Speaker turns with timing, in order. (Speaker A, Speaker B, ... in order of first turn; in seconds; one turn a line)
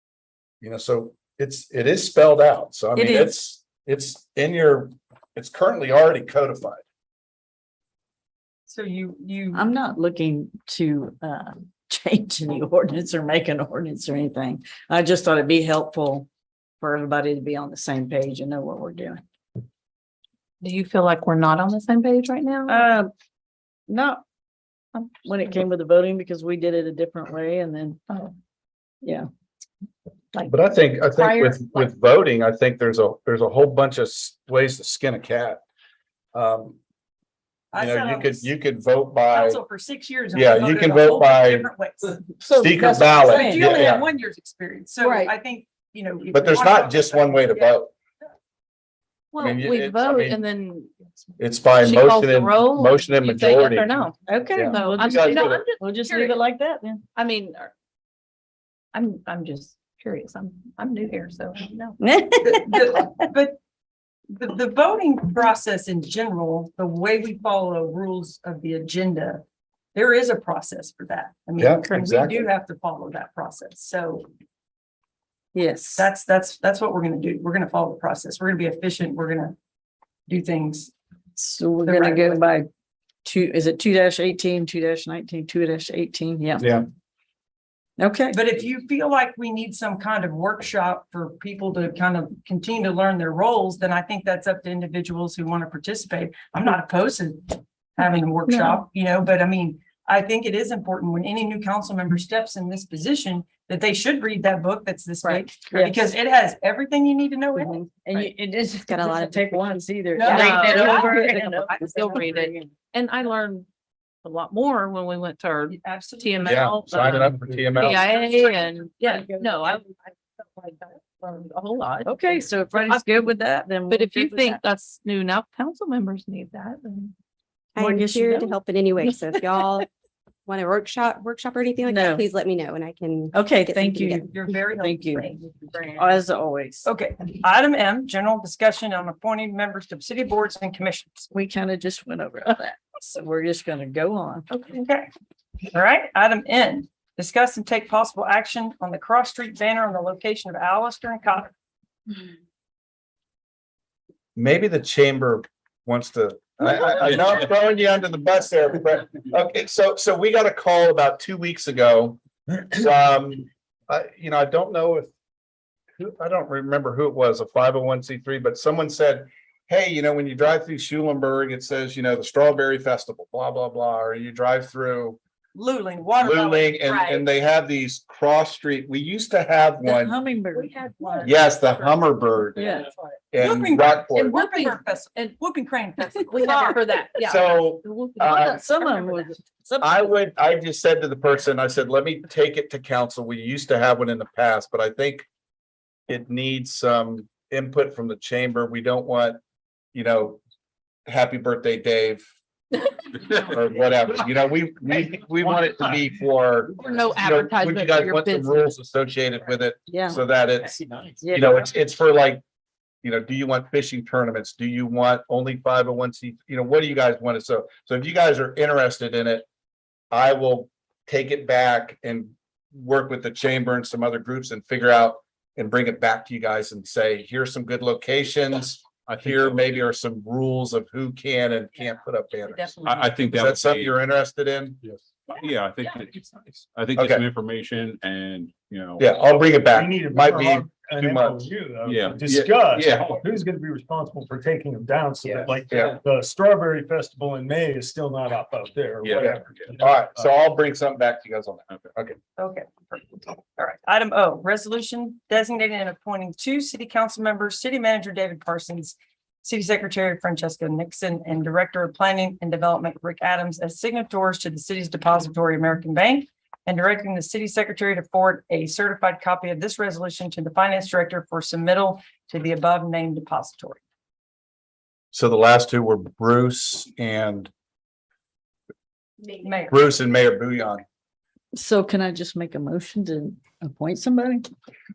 Speaker A: 0.6-6.8
Speaker B: 3.0-3.3
Speaker C: 8.7-9.6
Speaker B: 9.5-16.3
Speaker B: 16.8-19.2
Speaker D: 20.6-22.9
Speaker B: 22.7-23.1
Speaker B: 23.9-24.2
Speaker B: 25.2-28.0
Speaker A: 30.4-35.6
Speaker D: 31.2-31.9
Speaker A: 36.3-36.8
Speaker C: 37.7-38.5
Speaker A: 37.8-39.6
Speaker C: 39.3-42.2
Speaker A: 40.3-41.7
Speaker B: 42.4-43.7
Speaker A: 42.6-44.1
Speaker C: 43.1-47.7
Speaker B: 45.0-45.3
Speaker A: 46.3-47.9
Speaker D: 49.3-50.9
Speaker A: 49.4-50.4
Speaker A: 51.4-55.6
Speaker D: 51.8-54.1
Speaker B: 54.3-57.0
Speaker D: 54.7-56.4
Speaker D: 57.1-57.7
Speaker D: 58.9-62.0
Speaker E: 62.0-62.9
Speaker C: 62.4-63.6
Speaker C: 64.3-69.4
Speaker C: 70.0-74.3
Speaker A: 71.6-72.5
Speaker B: 75.5-76.1
Speaker C: 76.0-79.5
Speaker C: 80.3-80.9
Speaker B: 81.4-82.7
Speaker C: 81.8-82.4
Speaker B: 83.2-86.7
Speaker B: 88.0-88.4
Speaker C: 88.3-107.9
Speaker B: 105.2-106.0
Speaker B: 107.5-112.7
Speaker E: 108.9-109.8
Speaker C: 110.2-112.3
Speaker D: 110.3-113.7
Speaker D: 114.2-123.1
Speaker C: 115.7-116.7
Speaker A: 116.5-118.1
Speaker C: 117.2-119.4
Speaker B: 122.0-124.6
Speaker D: 123.9-127.1
Speaker E: 127.8-129.9
Speaker B: 127.8-129.7
Speaker E: 130.5-134.3
Speaker B: 131.8-132.3
Speaker B: 133.3-135.3
Speaker C: 134.3-136.2
Speaker B: 136.0-136.9
Speaker C: 136.8-141.3
Speaker B: 141.3-144.5
Speaker C: 144.5-145.1
Speaker C: 145.7-151.5
Speaker A: 154.4-165.1
Speaker A: 166.0-175.2
Speaker C: 175.6-176.8
Speaker A: 176.2-180.2
Speaker D: 176.9-177.3
Speaker B: 179.8-180.8
Speaker D: 180.5-183.2
Speaker C: 181.1-181.3
Speaker A: 181.2-182.7
Speaker B: 182.6-182.9
Speaker A: 183.3-184.4
Speaker C: 183.4-186.8
Speaker D: 184.3-185.4
Speaker D: 186.2-189.3
Speaker A: 187.2-188.6
Speaker B: 188.3-190.1
Speaker A: 189.8-195.3
Speaker A: 196.1-199.4
Speaker A: 199.9-200.4
Speaker A: 201.1-202.2
Speaker A: 203.4-210.7
Speaker D: 206.8-208.8
Speaker B: 209.9-210.2
Speaker B: 211.2-211.6
Speaker A: 211.3-212.4
Speaker A: 213.0-219.5
Speaker A: 220.1-234.8
Speaker F: 229.1-229.8
Speaker D: 232.4-233.2
Speaker F: 232.8-234.0
Speaker F: 234.8-239.2
Speaker A: 237.0-237.2
Speaker A: 239.0-241.5
Speaker G: 239.4-250.3
Speaker F: 241.8-243.2
Speaker A: 245.7-245.9
Speaker F: 249.0-249.8
Speaker A: 249.2-252.2
Speaker C: 252.4-273.8
Speaker A: 275.1-277.5
Speaker C: 279.4-279.8
Speaker A: 279.7-280.8
Speaker B: 281.5-284.5